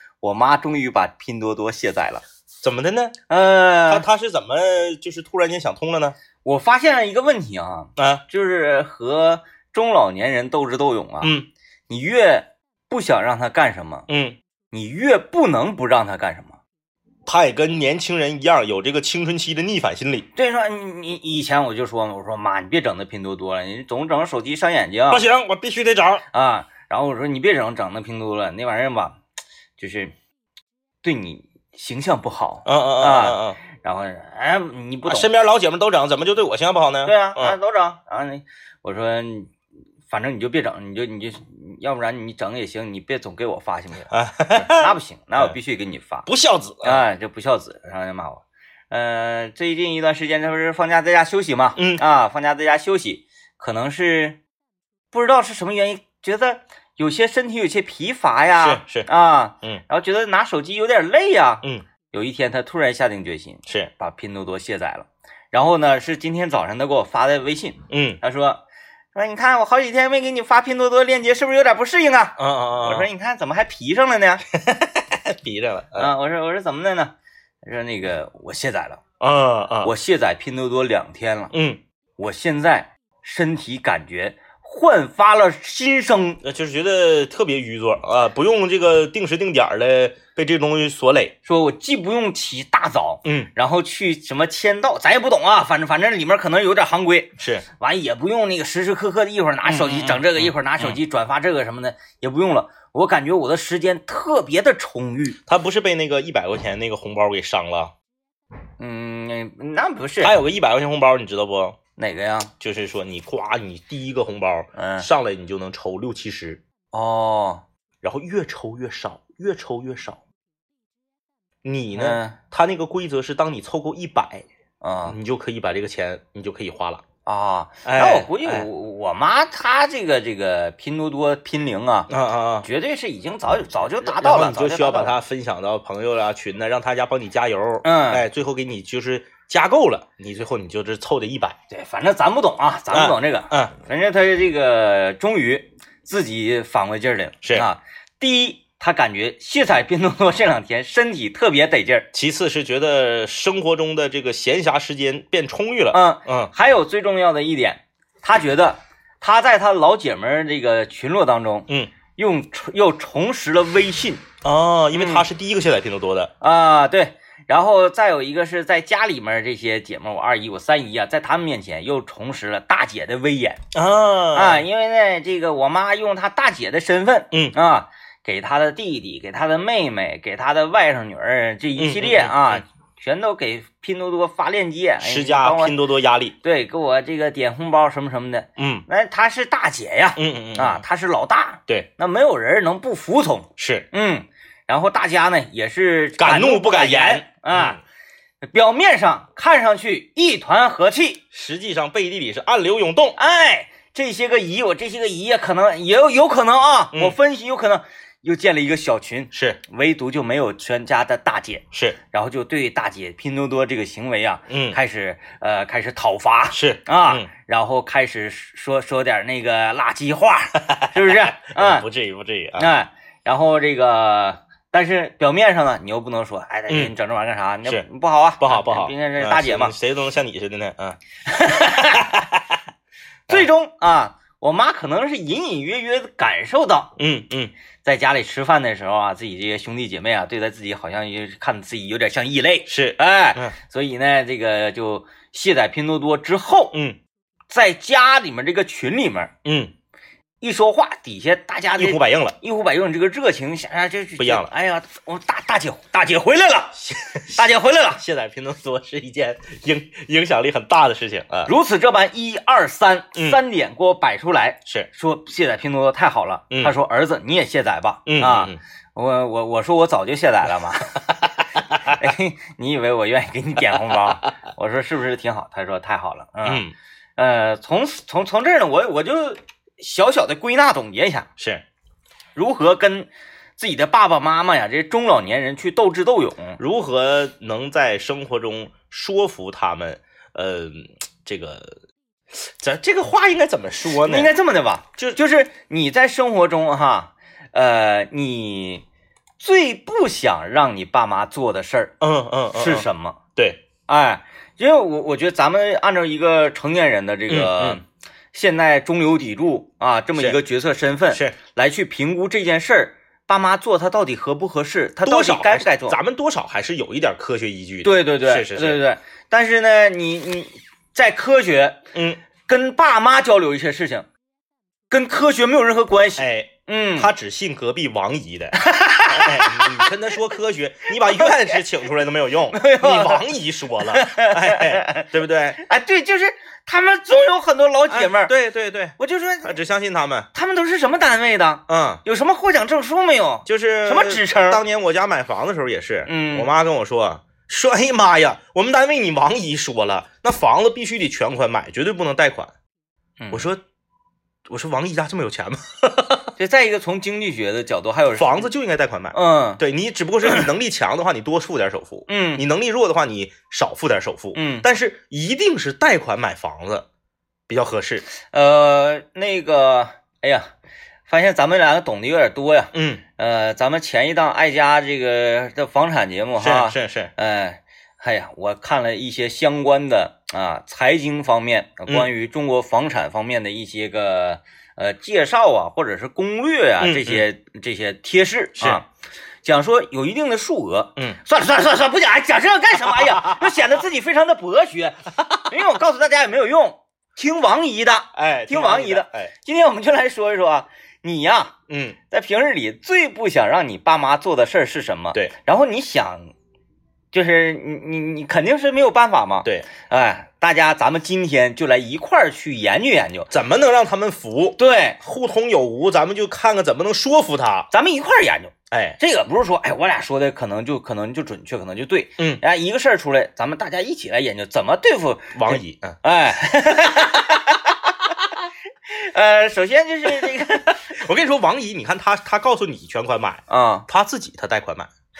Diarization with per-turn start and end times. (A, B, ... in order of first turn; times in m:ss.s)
0:00.2-0:02.2 A
0:02.6-0:03.2 B
0:03.3-0:04.0 A
0:03.8-0:06.2 B
0:06.4-0:11.3 A
0:08.0-0:08.2 B
0:11.2-0:11.5 B
0:11.9-0:14.1 A
0:14.1-0:14.4 B
0:14.7-0:16.6 A
0:17.2-0:20.3 B
0:20.4-0:25.2 A
0:25.1-0:26.2 B
0:26.3-0:29.2 A
0:29.8-0:30.1 A
0:31.0-0:35.3 A
0:32.6-0:33.6 B
0:35.0-0:37.6 B
0:37.0-0:39.5 A
0:40.1-0:46.3 A
0:44.1-0:45.6 B
0:46.2-0:47.0 B
0:46.8-0:54.4 A
0:51.8-0:52.0 B
0:55.1-1:08.6 A
0:58.6-0:59.1 B
1:07.9-1:08.2 B
1:09.1-1:14.4 A
1:12.4-1:13.1 B
1:14.6-1:16.1 B
1:16.0-1:17.1 A
1:17.6-1:19.0 A
1:19.2-1:19.9 B
1:19.8-1:21.5 A
1:21.5-1:21.8 B
1:22.2-1:26.4 A
1:26.4-1:31.3 B
1:31.4-1:45.4 A
1:33.2-1:33.5 B
1:37.4-1:37.6 B
1:39.6-1:41.0 B
1:45.5-1:47.9 B
1:48.8-1:50.4 A
1:50.2-1:51.8 B
1:52.0-1:52.5 A
1:52.6-1:56.6 B
1:54.7-1:55.1 A
1:56.9-1:57.6 A
1:58.0-2:00.2 B
2:01.6-2:04.4 B
2:02.0-2:02.4 A
2:04.8-2:05.2 A
2:05.1-2:07.0 B
2:07.2-2:12.1 A
2:07.8-2:08.7 B
2:12.1-2:12.7 B
2:12.6-2:15.2 A
2:13.8-2:21.6 B
2:17.8-2:18.2 A
2:21.7-2:32.1 A
2:22.9-2:23.7 B
2:27.4-2:27.7 B
2:32.1-2:36.5 B
2:35.9-2:44.2 A
2:44.4-2:46.3 B
2:44.9-2:45.2 A
2:46.4-2:53.6 A
2:53.7-2:54.6 B
2:54.3-3:05.8 A
3:01.8-3:02.6 B
3:05.0-3:06.3 B
3:06.4-3:17.8 A
3:08.6-3:08.8 B
3:10.2-3:10.8 B
3:13.6-3:13.9 B
3:16.2-3:17.8 B
3:18.4-3:21.2 A
3:21.3-3:23.2 B
3:23.2-3:41.8 A
3:29.3-3:29.6 B
3:31.7-3:32.0 B
3:34.5-3:34.8 B
3:36.5-3:37.3 B
3:40.7-3:42.7 B
3:42.6-3:49.7 A
3:48.4-3:51.0 B
3:51.2-3:52.1 A
3:51.6-3:52.6 B
3:53.3-3:56.9 A
3:57.0-3:57.5 B
3:57.8-4:06.8 A
4:02.7-4:03.6 B
4:06.7-4:07.0 B
4:07.5-4:09.3 A
4:09.4-4:09.7 B
4:10.4-4:16.8 A
4:11.7-4:12.4 B
4:14.2-4:14.5 B
4:16.8-4:17.4 B
4:17.3-4:18.0 A
4:18.0-4:21.5 B
4:21.4-4:31.0 A
4:23.1-4:23.4 B
4:28.1-4:28.6 B
4:31.7-4:32.0 B
4:31.8-4:36.6 A
4:36.4-4:36.7 B
4:37.2-4:41.3 A
4:41.4-4:41.6 B
4:42.3-4:46.6 A
4:46.6-4:51.8 B
4:52.3-4:54.3 B
4:54.0-4:58.8 A
4:59.4-5:01.9 A
5:02.0-5:03.6 B
5:02.5-5:03.2 A
5:03.9-5:16.0 A
5:07.3-5:07.8 B
5:11.1-5:11.4 B
5:15.0-5:18.8 B
5:17.8-5:21.8 A
5:21.9-5:22.2 B
5:22.5-5:24.1 A
5:24.9-5:27.1 A
5:26.2-5:35.6 B
5:28.6-5:29.9 A
5:31.1-5:31.6 A
5:32.5-5:33.3 A
5:33.8-5:38.3 A
5:37.9-5:40.3 B
5:39.0-5:39.6 A
5:40.3-5:44.6 A
5:41.7-5:42.0 B
5:43.4-5:52.5 B
5:46.0-5:46.5 A
5:53.2-5:53.5 A
5:53.3-5:53.6 B
5:54.5-5:56.3 B
5:56.4-5:58.5 A
5:58.1-6:06.8 B
5:59.1-5:59.6 A
6:02.1-6:02.4 A
6:04.3-6:04.6 A
6:07.5-6:08.0 B
6:08.3-6:10.5 A
6:11.1-6:28.9 A
6:12.7-6:13.0 B
6:16.4-6:17.1 B
6:26.8-6:27.2 B
6:29.4-6:41.5 A
6:32.9-6:33.5 B
6:38.1-6:39.3 B
6:41.7-6:42.0 B
6:42.1-6:46.3 A
6:47.1-6:53.3 A
6:53.3-6:57.7 B
6:54.6-6:55.0 A
6:57.7-7:08.1 A
6:58.7-6:59.0 B
7:05.3-7:06.0 B
7:08.9-7:11.0 A
7:10.9-7:14.9 B
7:13.5-7:13.9 A